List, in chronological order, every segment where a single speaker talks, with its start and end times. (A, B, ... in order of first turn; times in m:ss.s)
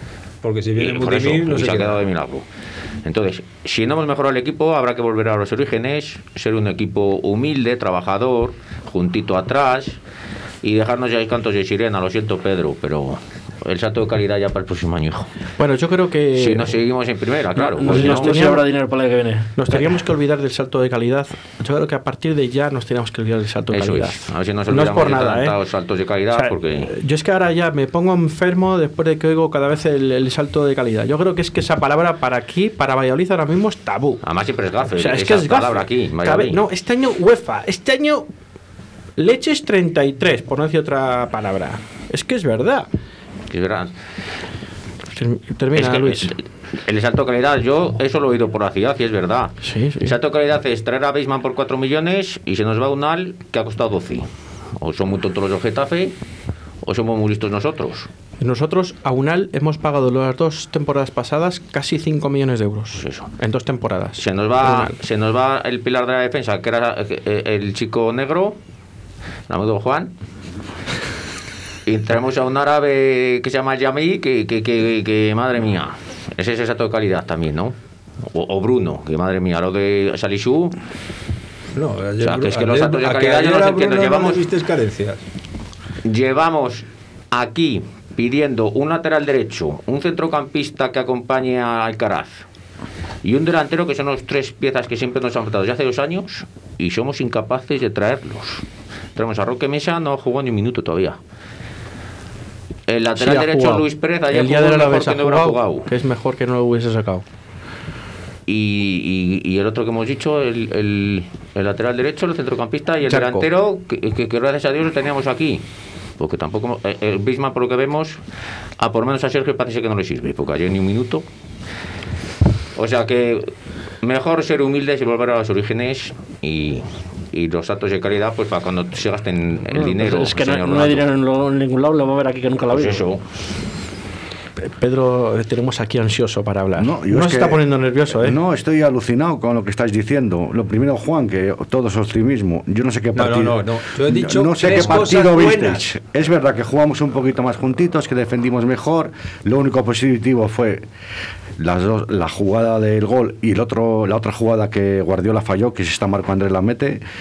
0:00.4-0:02.0 A
0:00.8-0:02.4 B
0:03.0-0:10.0 B
0:10.6-0:15.3 B
0:15.6-0:16.8 C
0:16.4-0:18.4 B
0:17.6-0:19.8 D
0:17.7-0:18.6 C
0:19.6-0:25.6 C
0:23.7-0:26.9 B
0:26.3-0:34.2 C
0:34.2-0:36.6 B
0:35.0-0:38.3 C
0:39.2-0:42.9 C
0:43.5-0:43.9 B
0:45.1-0:46.3 C
0:45.7-0:54.3 B
0:49.6-0:50.2 C
0:54.8-0:56.2 B
0:56.8-0:58.1 B
0:58.4-1:04.9 C
1:03.0-1:03.3 B
1:04.2-1:08.6 B
1:09.5-1:10.1 B
1:11.8-1:17.8 B
1:18.3-1:20.8 B
1:21.8-1:25.2 A
1:22.2-1:24.4 B
1:26.0-1:32.4 B
1:33.2-1:38.6 B
1:39.2-1:41.2 B
1:42.9-1:45.9 B
1:43.2-1:47.2 C
1:48.5-1:55.6 B
1:53.1-1:53.5 C
1:56.2-1:58.2 B
1:58.8-2:01.3 B
2:02.8-2:11.1 B
2:09.7-2:13.0 D
2:12.7-2:13.2 B
2:14.6-2:18.4 C
2:16.8-2:30.8 E
2:23.2-2:25.8 A
2:31.6-2:37.0 E